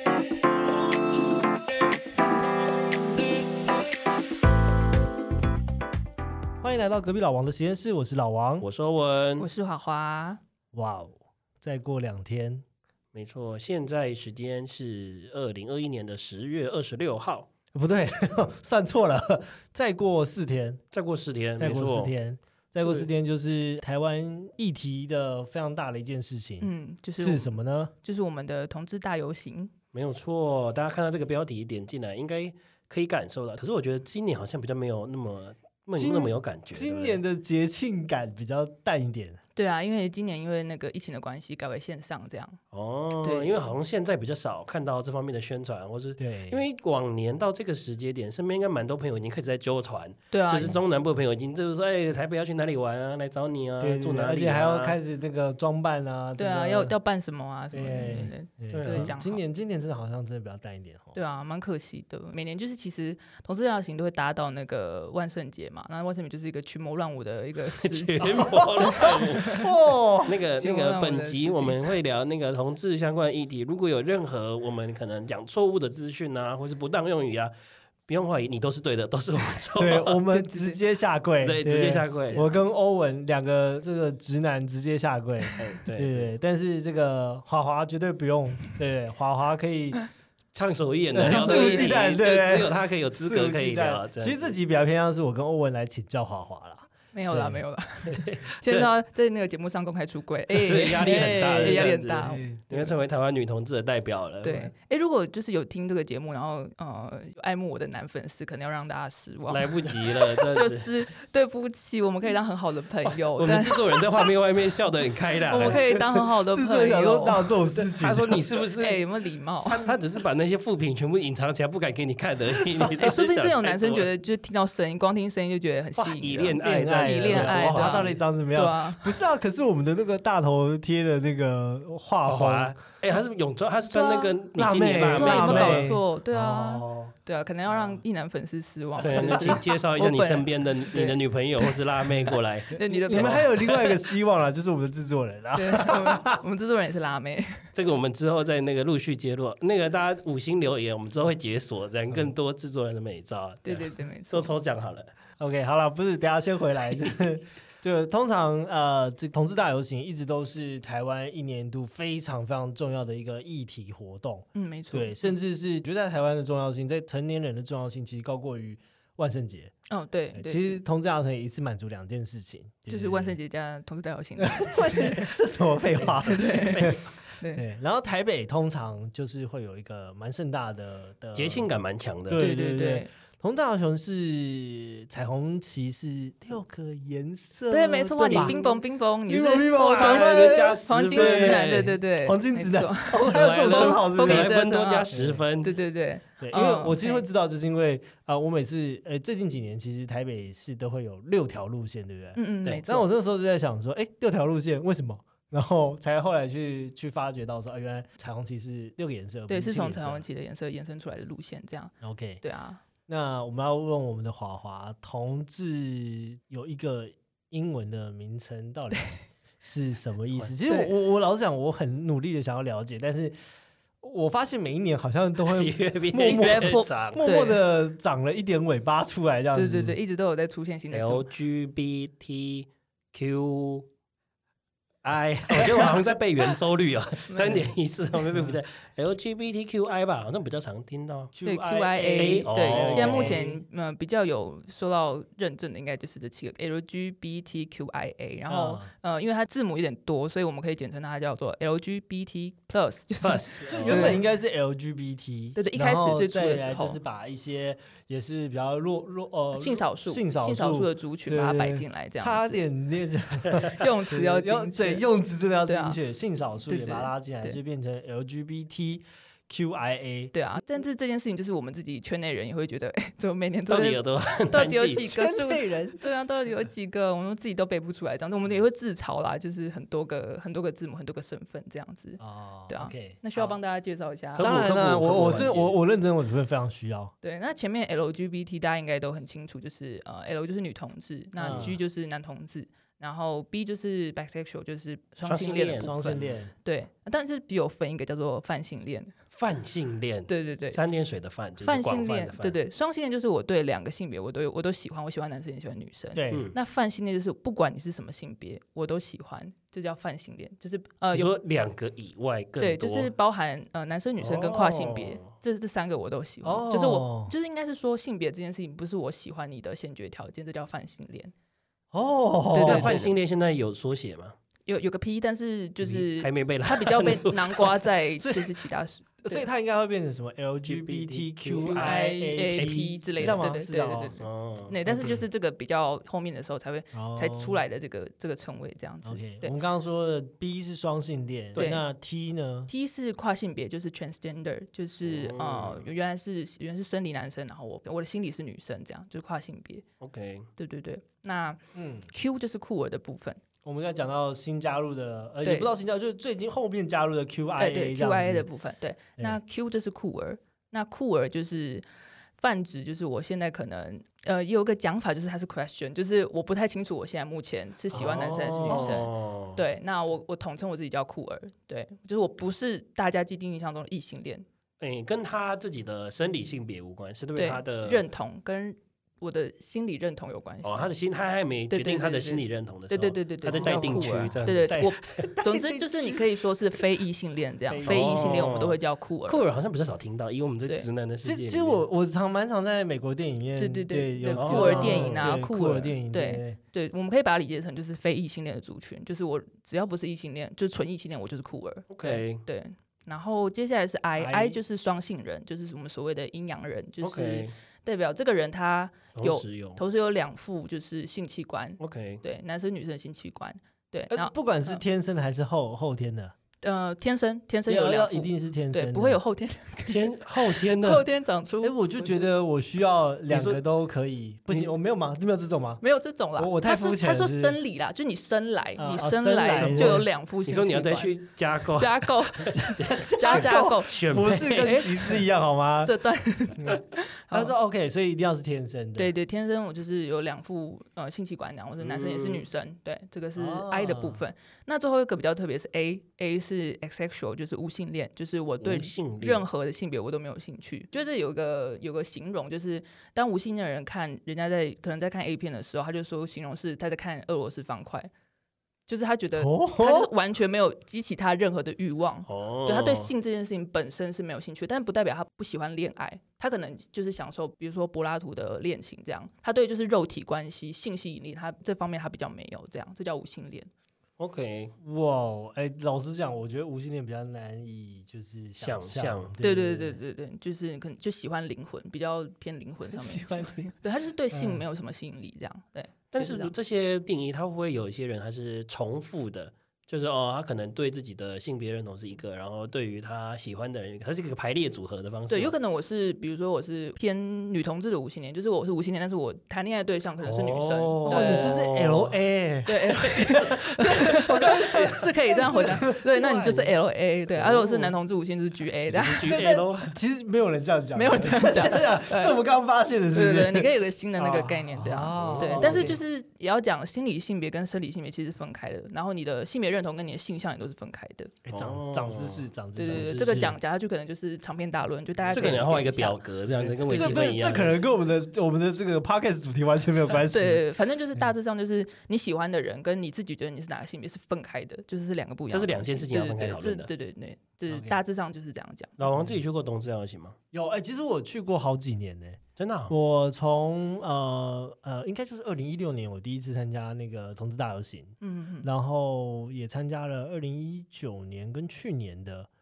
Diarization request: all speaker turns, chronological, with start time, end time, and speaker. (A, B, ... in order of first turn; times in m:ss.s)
0:06.6-0:08.7 A
0:08.6-0:09.5 B
0:09.4-0:10.4 C
0:10.7-0:12.6 A
0:13.1-0:17.5 B
0:17.7-0:20.8 A
0:20.9-0:22.1 B
0:21.6-0:27.9 A
0:26.6-0:29.7 C
0:29.9-0:37.2 B
0:36.0-0:39.4 A
0:39.6-0:42.6 C
0:42.7-0:55.0 B
0:43.2-0:43.6 C
0:46.2-0:46.6 A
0:50.3-0:50.8 C
0:53.8-0:57.0 A
0:56.4-0:59.4 C
0:57.7-1:01.2 A
0:58.7-0:59.1 B
1:01.1-1:09.7 C
1:07.8-1:17.5 B
1:08.8-1:10.4 A
1:10.6-1:11.8 C
1:18.1-1:20.2 B
1:19.8-1:30.0 A
1:20.3-1:20.8 C
1:21.4-1:22.4 B
1:22.3-1:22.6 C
1:25.6-1:26.3 B
1:30.5-1:34.6 B
1:31.1-1:37.6 A
1:31.2-1:32.1 C
1:37.1-1:42.9 C
1:38.1-1:38.9 B
1:40.5-1:44.7 B
1:41.0-1:42.6 A
1:44.4-1:54.3 C
1:49.5-1:51.0 B
1:53.0-1:56.0 B
1:55.5-1:57.6 C
1:55.7-1:58.6 A
1:57.8-1:59.0 B
1:58.8-1:59.9 C
1:59.6-2:04.1 B
2:03.0-2:09.2 C
2:06.0-2:08.1 B
2:06.6-2:12.8 A
2:12.2-2:16.0 B
2:13.9-2:14.4 C
2:14.6-2:17.1 A
2:15.1-2:21.8 C
2:17.7-2:18.0 A
2:19.0-2:24.0 B
2:19.0-2:19.6 A
2:22.7-2:23.9 C
2:22.8-2:26.4 A
2:25.5-2:27.6 C
2:27.8-2:35.1 B
2:33.6-2:34.5 C
2:35.4-2:49.7 A
2:44.5-2:45.2 C
2:49.9-2:50.8 C
2:50.3-2:53.4 A
2:52.9-2:55.3 C
2:54.4-3:01.7 A
2:56.0-2:57.6 C
2:56.1-2:57.0 B
3:01.4-3:02.4 B
3:02.3-3:08.8 A
3:02.4-3:03.1 C
3:07.7-3:17.2 C
3:09.3-3:14.6 A
3:09.7-3:11.9 B
3:13.2-3:15.8 B
3:15.1-3:15.4 A
3:16.4-3:30.2 A
3:22.4-3:23.1 C
3:29.5-3:32.8 C
3:32.0-3:32.4 A
3:33.1-3:43.4 A
3:44.0-3:50.0 A
3:45.4-3:47.2 B
3:46.2-3:47.6 C
3:49.5-3:51.3 C
3:50.9-3:53.9 B
3:55.0-4:01.3 B
3:55.6-3:56.0 C
3:57.3-3:57.6 C
4:01.3-4:03.6 A
4:01.4-4:14.2 C
4:02.2-4:03.4 B
4:08.5-4:08.9 A
4:13.2-4:14.2 B
4:13.7-4:30.3 A
4:15.6-4:17.0 C
4:19.5-4:22.6 C
4:23.6-4:25.0 C
4:25.6-4:26.0 C
4:26.7-4:27.6 C
4:30.3-4:44.6 C
4:33.7-4:35.2 B
4:35.1-4:36.0 A
4:42.2-4:43.2 A
4:44.4-4:45.8 B
4:44.4-4:47.1 A
4:47.2-4:59.1 C
4:51.4-4:51.8 B
4:51.4-4:51.8 A
4:55.2-4:56.4 B
4:55.8-4:56.5 A
4:59.3-5:02.6 B
5:00.3-5:00.8 C
5:01.6-5:11.3 C
5:06.1-5:06.5 A
5:11.1-5:13.1 B
5:12.6-5:21.3 C
5:14.2-5:15.3 B
5:16.4-5:17.3 A
5:21.9-5:23.1 A
5:22.5-5:23.0 C
5:22.6-5:24.4 B
5:24.7-5:29.5 C
5:25.8-5:27.8 B
5:28.2-5:28.6 A
5:29.2-5:34.1 A
5:30.6-5:33.4 B
5:31.7-5:39.6 C
5:34.2-5:34.7 B
5:34.9-5:35.2 A
5:36.9-5:37.6 A
5:39.0-5:42.7 A
5:41.6-5:41.8 C
5:42.7-5:49.8 C
5:45.0-5:45.9 B
5:50.0-5:50.5 B
5:50.6-5:53.4 C
5:51.7-5:52.1 A
5:53.6-5:58.5 A
5:55.4-5:55.7 C
5:57.6-6:01.8 C
6:02.4-6:14.4 C
6:07.9-6:09.1 A
6:07.9-6:09.6 B
6:14.8-6:18.0 B
6:17.4-6:20.9 C
6:20.6-6:24.8 B
6:21.7-6:29.4 C
6:23.4-6:26.4 A
6:27.7-6:28.6 A
6:27.9-6:31.8 B
6:31.2-6:36.6 A
6:33.6-6:54.8 C
6:34.4-6:35.3 B
6:41.9-6:42.4 B
6:44.2-6:44.6 A
6:47.0-6:47.5 B
6:49.2-6:49.8 B
6:51.8-6:52.2 B
6:54.1-6:56.3 A
6:56.6-7:01.8 C
6:57.7-6:59.2 A
6:59.9-7:01.1 B
7:01.6-7:05.8 A
7:03.3-7:03.6 B
7:05.8-7:11.2 C
7:06.4-7:07.6 A
7:08.8-7:10.1 A
7:09.4-7:15.2 B
7:11.7-7:15.1 C
7:12.5-7:16.0 A
7:15.8-7:17.5 C
7:16.5-7:19.1 A
7:19.0-7:38.1 C
7:21.8-7:22.5 B
7:23.4-7:24.2 A
7:28.6-7:29.4 B
7:38.9-7:53.7 C
7:39.4-7:40.1 A
7:42.3-7:43.1 B
7:54.2-7:54.7 B
7:54.8-8:00.0 A
7:58.6-7:59.3 B
7:59.4-8:06.5 C
8:02.9-8:03.7 A
8:04.3-8:04.6 A
8:06.1-8:15.5 B
8:15.3-8:21.5 C
8:20.2-8:22.2 B
8:21.1-8:26.7 A
8:22.7-8:29.3 C
8:23.0-8:23.5 B
8:24.7-8:25.0 B
8:27.4-8:27.9 A
8:27.5-8:27.8 B
8:28.9-8:30.0 B
8:29.3-8:36.0 A
8:30.9-8:32.4 C
8:33.1-8:41.3 C
8:35.1-8:35.9 B
8:41.4-8:43.6 A
8:41.5-8:43.4 B
8:42.8-8:46.2 C
8:45.2-8:45.5 A
8:45.3-8:47.8 B
8:46.6-8:50.6 A
8:46.9-8:47.2 C
8:50.3-8:59.0 C
8:55.5-8:56.9 B
8:57.7-8:58.0 A
8:59.0-9:00.4 B
8:59.1-8:59.4 A
9:00.5-9:12.5 A
9:02.6-9:03.0 B
9:08.2-9:08.7 C